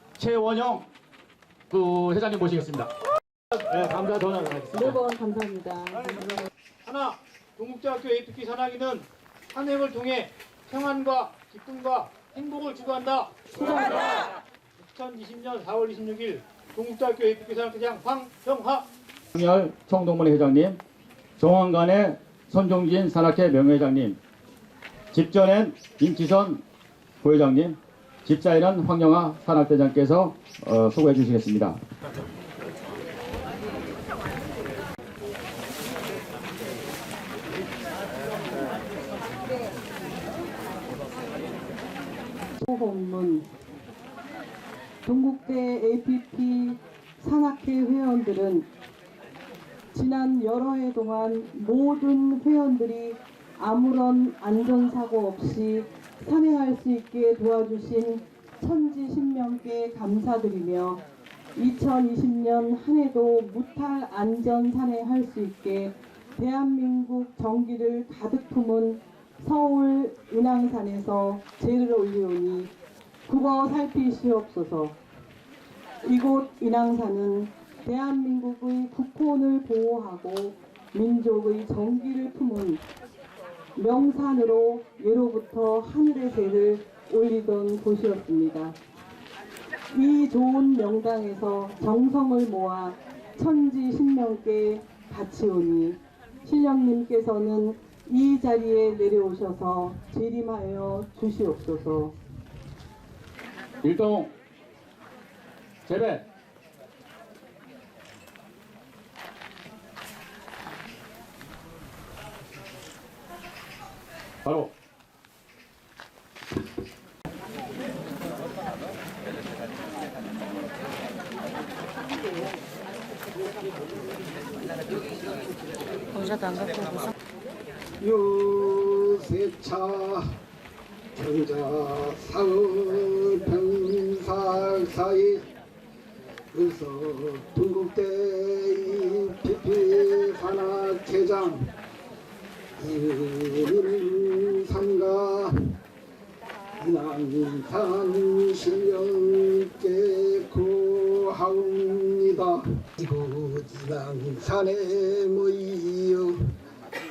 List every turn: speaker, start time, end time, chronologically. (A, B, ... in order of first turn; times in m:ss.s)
0:00.2-0:00.9 A
0:01.7-0:02.9 A
0:03.5-0:05.0 A
0:04.7-0:06.0 B
0:06.8-0:14.3 C
0:14.8-0:18.9 C
0:19.3-0:20.8 A
0:21.4-0:24.2 A
0:25.1-0:26.6 A
0:27.2-0:31.8 A
0:42.6-0:43.5 B
0:45.0-0:48.7 B
0:49.9-1:01.0 B
1:01.6-1:12.7 B
1:13.3-1:15.0 B
1:16.0-1:22.8 B
1:23.8-1:28.8 B
1:29.9-1:42.2 B
1:43.8-1:44.3 A
1:45.8-1:46.2 A
1:54.4-1:54.7 A
2:08.0-2:10.4 D
2:11.2-2:15.5 D
2:16.5-2:21.7 D
2:22.8-2:25.8 D
2:26.8-2:36.5 D